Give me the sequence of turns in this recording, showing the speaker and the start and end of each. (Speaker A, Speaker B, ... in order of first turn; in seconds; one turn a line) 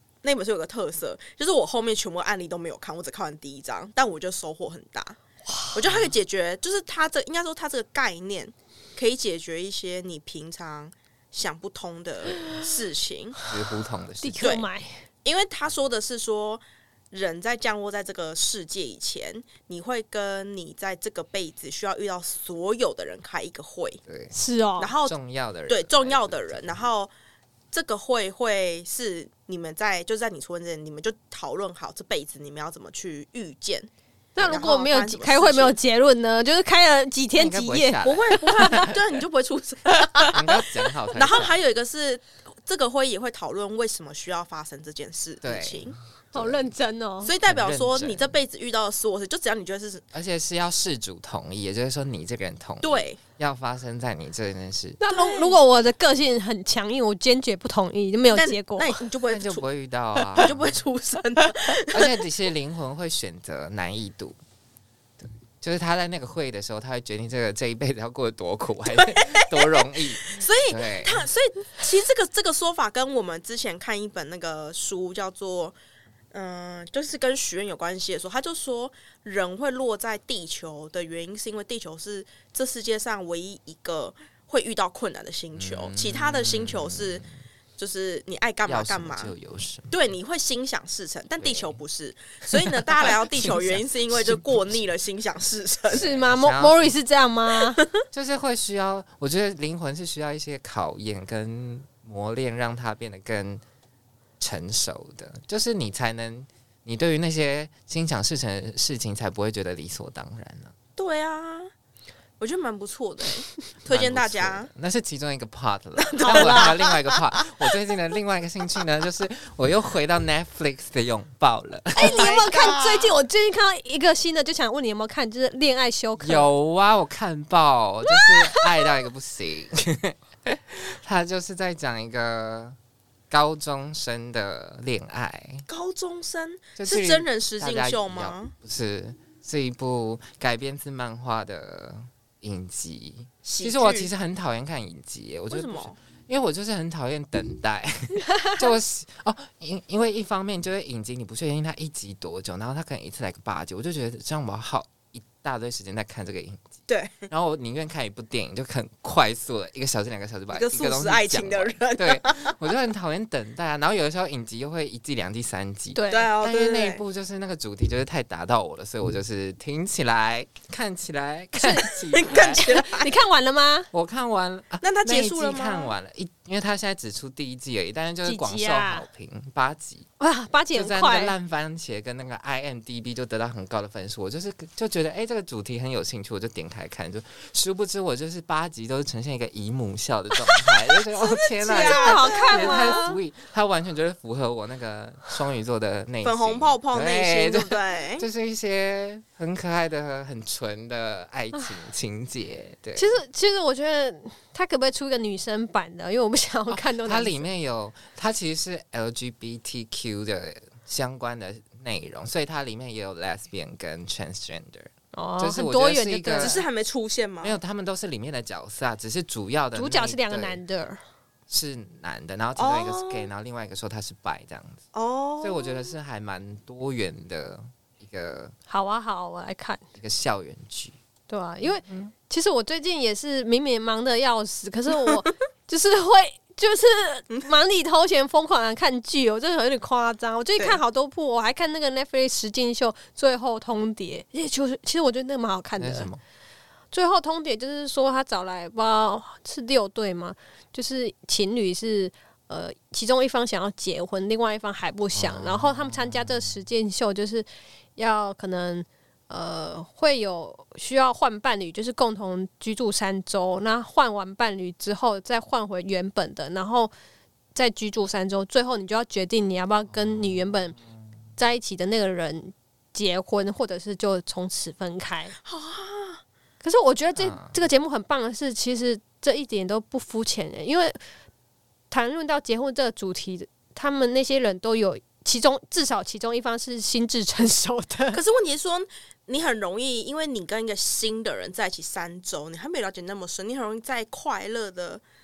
Speaker A: 0.2-5.2
Speaker B: 5.5-5.8
Speaker A: 5.7-13.4
Speaker B: 12.3-12.6
Speaker C: 13.4-14.6
Speaker B: 14.2-15.0
Speaker A: 14.4-14.7
Speaker A: 15.2-24.0
Speaker C: 24.1-24.3
Speaker B: 24.3-24.9
Speaker A: 24.8-25.1
Speaker C: 25.0-26.9
Speaker A: 25.7-27.1
Speaker A: 27.7-35.8
Speaker B: 34.3-38.8
Speaker C: 37.3-39.0
Speaker A: 38.0-46.0
Speaker C: 40.3-41.6
Speaker C: 45.4-46.7
Speaker B: 46.3-47.3
Speaker A: 47.2-50.0
Speaker C: 47.4-48.3
Speaker C: 50.1-55.0
Speaker A: 52.8-53.2
Speaker B: 55.0-59.0
Speaker A: 55.1-55.6
Speaker A: 58.3-59.6
Speaker C: 59.3-60.8
Speaker A: 60.3-62.1
Speaker C: 61.9-64.4
Speaker C: 65.2-71.3
Speaker A: 68.9-75.8
Speaker A: 76.3-87.2
Speaker C: 85.5-87.3
Speaker A: 87.8-89.3
Speaker C: 88.7-90.0
Speaker A: 89.9-96.1
Speaker C: 91.4-91.8
Speaker C: 92.5-94.6
Speaker C: 95.9-96.9
Speaker B: 95.9-97.8
Speaker C: 98.1-103.6
Speaker C: 104.4-110.8
Speaker A: 111.0-111.7
Speaker A: 112.4-114.7
Speaker C: 113.8-122.3
Speaker A: 116.0-117.4
Speaker B: 116.2-116.7
Speaker A: 122.0-123.2
Speaker B: 122.0-126.5
Speaker C: 126.2-132.8
Speaker B: 128.1-128.6
Speaker C: 133.3-135.7
Speaker A: 135.7-138.5
Speaker C: 136.8-172.7
Speaker A: 143.4-144.1
Speaker A: 145.5-146.0
Speaker B: 148.3-148.6
Speaker A: 156.9-157.3
Speaker A: 160.5-162.6
Speaker B: 165.9-166.3
Speaker A: 166.1-167.0
Speaker B: 171.5-171.9
Speaker A: 172.0-173.1
Speaker B: 172.5-173.9
Speaker C: 173.9-180.1
Speaker A: 174.8-175.9
Speaker B: 178.2-179.1
Speaker B: 180.2-181.3
Speaker C: 180.7-203.1
Speaker A: 191.4-193.0
Speaker B: 191.7-193.2
Speaker A: 196.2-198.3
Speaker B: 202.9-207.4
Speaker C: 206.7-216.6
Speaker B: 215.1-216.6
Speaker A: 216.4-217.6
Speaker C: 217.4-220.6
Speaker B: 219.8-221.0
Speaker C: 221.5-224.8
Speaker A: 222.6-223.3
Speaker A: 224.9-225.9
Speaker C: 225.4-228.5
Speaker B: 228.7-229.8
Speaker C: 229.9-231.0
Speaker B: 231.3-246.1
Speaker C: 231.6-232.1
Speaker C: 245.8-246.2
Speaker B: 246.9-266.9
Speaker C: 255.1-256.5
Speaker B: 267.5-270.8
Speaker C: 269.9-271.1
Speaker B: 271.4-275.3
Speaker A: 275.4-276.2
Speaker B: 276.6-281.0
Speaker C: 277.1-277.5
Speaker B: 281.9-288.2
Speaker A: 288.1-295.0